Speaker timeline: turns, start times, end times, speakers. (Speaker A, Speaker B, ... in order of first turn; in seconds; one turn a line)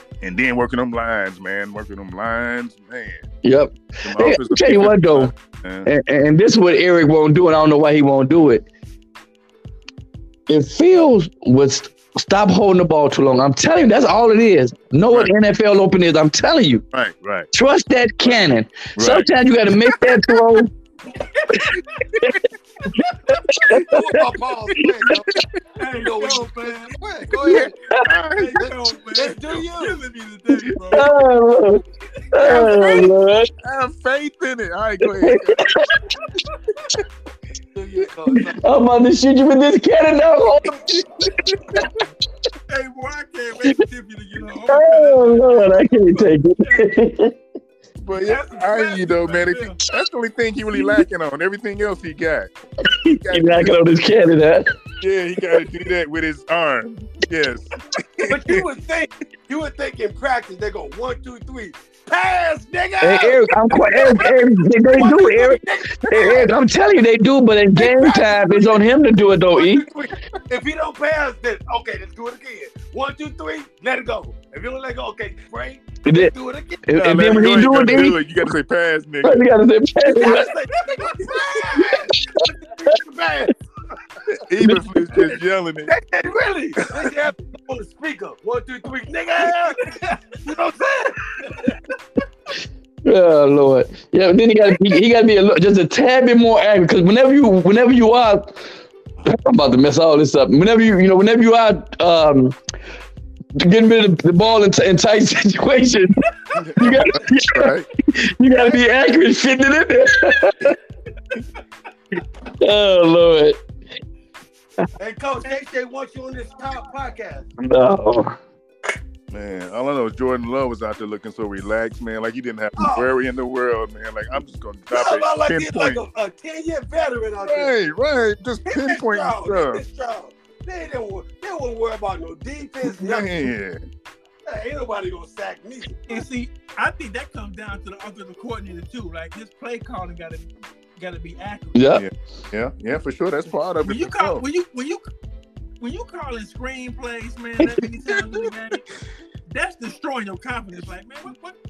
Speaker A: 0.2-3.3
Speaker B: 3.4-5.3
Speaker A: 4.0-5.9
Speaker B: 5.8-8.7
Speaker B: 10.5-16.8
Speaker A: 16.9-17.5
Speaker B: 17.5-20.7
Speaker A: 19.0-19.3
Speaker A: 19.9-20.2
Speaker C: 21.4-22.2
Speaker C: 22.8-23.6
Speaker B: 23.0-24.1
Speaker D: 23.9-25.3
Speaker C: 25.8-26.9
Speaker D: 25.8-27.7
Speaker A: 27.5-28.7
Speaker B: 27.5-28.1
Speaker C: 28.3-31.1
Speaker D: 28.7-30.0
Speaker B: 30.9-33.5
Speaker A: 32.4-35.7
Speaker C: 32.5-32.7
Speaker B: 35.2-36.0
Speaker D: 37.7-38.7
Speaker B: 38.4-40.9
Speaker A: 40.6-41.9
Speaker C: 42.7-46.9
Speaker B: 44.7-47.3
Speaker A: 48.0-52.5
Speaker C: 48.2-49.8
Speaker B: 52.8-54.7
Speaker A: 53.1-53.8
Speaker A: 55.0-58.6
Speaker D: 58.3-66.5
Speaker B: 63.0-69.9
Speaker D: 67.8-68.9
Speaker D: 69.5-77.3
Speaker B: 76.1-76.3
Speaker B: 76.9-78.2
Speaker A: 77.0-79.5
Speaker B: 79.2-80.5
Speaker D: 80.0-83.5
Speaker C: 80.9-81.4
Speaker A: 84.3-85.9
Speaker D: 85.9-89.9
Speaker C: 89.8-90.2
Speaker D: 90.4-91.7
Speaker B: 93.0-98.6
Speaker B: 99.2-102.6
Speaker B: 103.6-106.2
Speaker A: 106.6-107.9
Speaker B: 106.8-110.8
Speaker B: 112.5-113.6
Speaker D: 115.0-117.5
Speaker B: 117.6-118.4
Speaker A: 119.3-126.0
Speaker D: 122.8-123.1
Speaker D: 124.9-127.7
Speaker A: 127.4-129.8
Speaker D: 128.7-133.5
Speaker A: 132.8-133.8
Speaker D: 134.5-136.2
Speaker C: 136.1-141.8
Speaker B: 141.8-142.1
Speaker A: 141.9-144.4
Speaker C: 143.8-145.1
Speaker C: 145.8-148.8
Speaker A: 148.1-148.8
Speaker C: 149.5-151.6